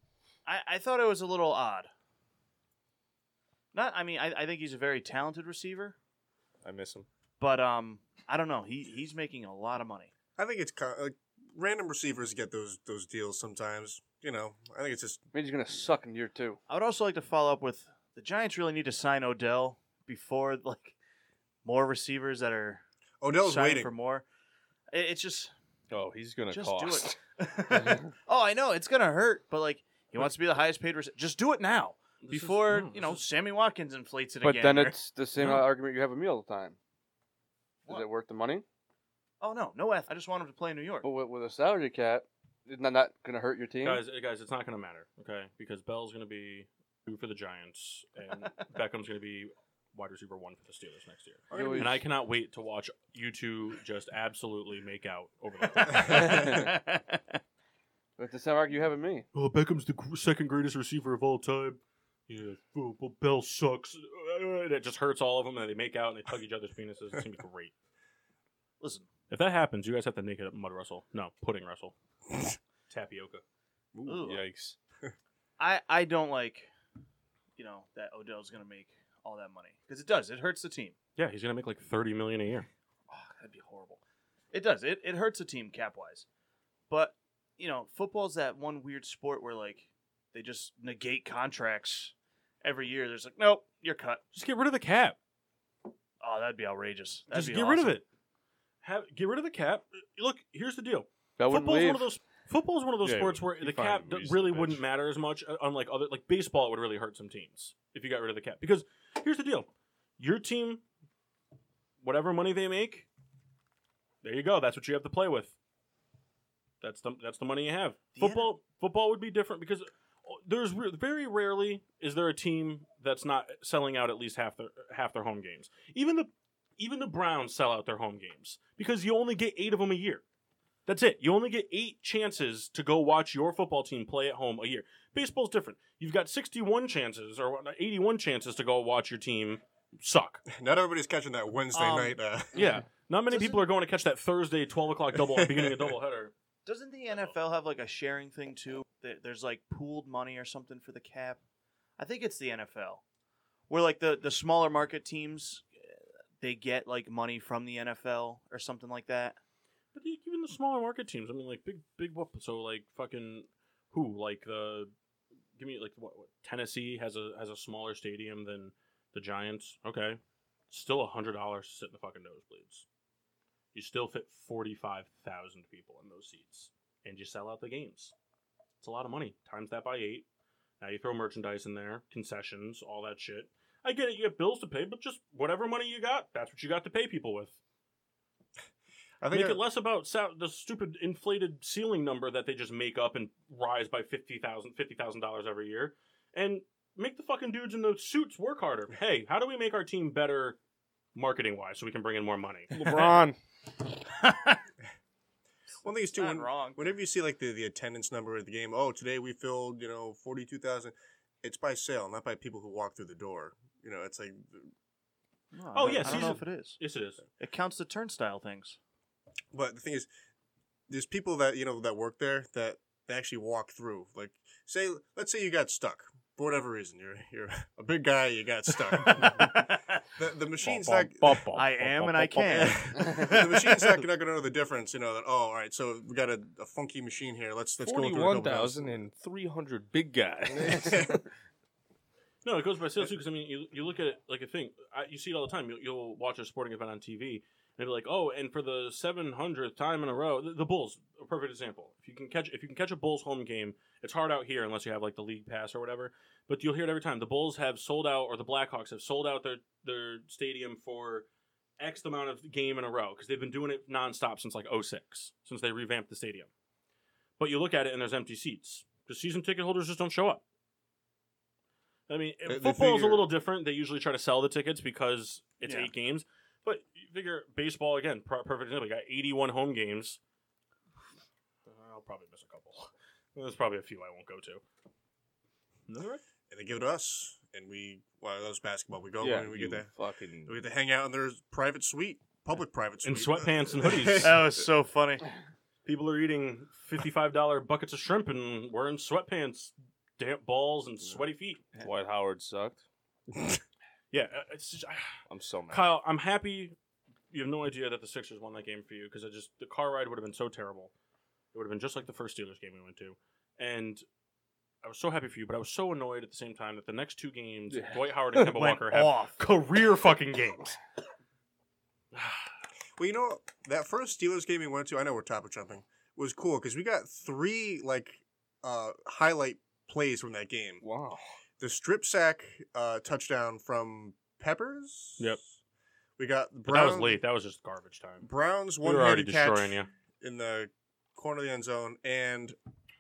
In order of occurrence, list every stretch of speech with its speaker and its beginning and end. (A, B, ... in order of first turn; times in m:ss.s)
0:00.4-0:01.9 A
0:03.7-0:06.0 A
0:06.6-0:07.1 B
0:07.4-0:10.1 A
0:10.4-0:15.2 C
0:15.3-0:16.6 D
0:16.7-0:21.0 A
0:21.6-0:22.8 A
0:23.2-0:23.9 C
0:23.4-0:24.2 A
0:24.9-0:25.5 A
0:25.9-0:27.2 B
0:26.5-0:35.0 A
0:32.2-0:33.2 E
0:34.4-0:36.8 D
0:35.4-0:35.6 E
0:37.9-0:38.6 D
0:39.4-0:41.1 A
0:41.0-0:44.0 D
0:43.8-0:56.6 E
0:51.5-0:52.0 C
0:51.5-0:52.0 D
0:56.0-0:57.2 A
0:56.1-0:56.6 D
0:58.2-0:59.3 D
0:59.3-1:07.7 E
1:08.8-1:09.1 A
1:09.3-1:11.9 E
1:12.9-1:13.4 E
1:13.9-1:14.2 C
1:14.1-1:14.4 A
1:14.2-1:14.8 B
1:15.6-1:16.7 A
1:17.6-1:21.0 A
1:21.2-1:22.7 E
1:23.1-1:24.0 A
1:24.5-1:26.3 A
1:26.9-1:34.2 A
1:34.3-1:35.2 E
1:36.2-1:38.0 A
1:37.3-1:38.0 E
1:38.8-1:49.7 E
1:41.4-1:42.1 D
1:43.0-1:44.8 B
1:50.2-1:50.8 E
1:52.0-1:53.1 E
1:54.2-1:55.6 E
1:56.8-2:10.2 E
1:58.2-1:58.5 A
2:10.9-2:20.4 E
2:20.5-2:22.6 C
2:21.7-2:22.2 A
2:22.5-2:26.3 E
2:23.3-2:23.6 A
2:25.2-2:25.9 C
2:26.7-2:31.4 A
2:32.0-2:33.0 A
2:33.7-2:39.4 A
2:39.9-2:44.9 E
2:45.6-2:52.9 E
2:53.7-2:58.1 E
2:58.8-3:00.2 E
3:00.8-3:07.6 E
3:09.2-3:09.6 C
3:09.3-3:20.6 E
3:21.2-3:23.0 E
3:22.7-3:23.4 B
3:24.1-3:24.6 A
3:25.8-3:34.7 C
3:26.1-3:26.8 A
3:35.5-3:36.8 A
3:35.7-3:37.2 E
3:35.9-3:36.4 C
3:37.4-3:38.8 A
3:39.5-3:40.1 C
3:40.9-3:49.6 C
3:49.0-3:50.0 A
3:50.2-3:51.5 C
3:50.7-3:52.7 B
3:51.5-3:54.0 A
3:52.5-3:59.0 C
3:57.8-4:01.2 B
4:00.6-4:01.2 C
4:02.4-4:21.3 E
4:21.8-4:26.5 E
4:27.4-4:30.4 E
4:32.1-4:40.2 E
4:32.4-4:33.3 C
4:35.6-4:35.9 A
4:41.7-4:44.6 E
4:45.9-4:46.2 E
4:46.5-4:49.9 C
4:49.2-4:50.6 B
4:50.5-4:54.5 C
4:53.0-4:54.4 E
4:54.2-4:55.3 A
4:55.8-5:01.7 E
5:01.8-5:02.8 B
5:04.1-5:05.1 E
5:05.3-5:05.9 B
5:05.7-5:06.8 E
5:07.3-5:10.9 E
5:11.5-5:14.0 E
5:14.8-5:20.8 E
5:17.7-5:18.5 B
5:18.5-5:19.4 A
5:22.1-5:22.4 E
5:23.0-5:30.8 C
5:30.8-5:31.2 B
5:31.6-5:35.4 C
5:36.2-5:37.2 C
5:36.7-5:38.3 E
5:38.2-5:42.6 C
5:38.8-5:39.9 E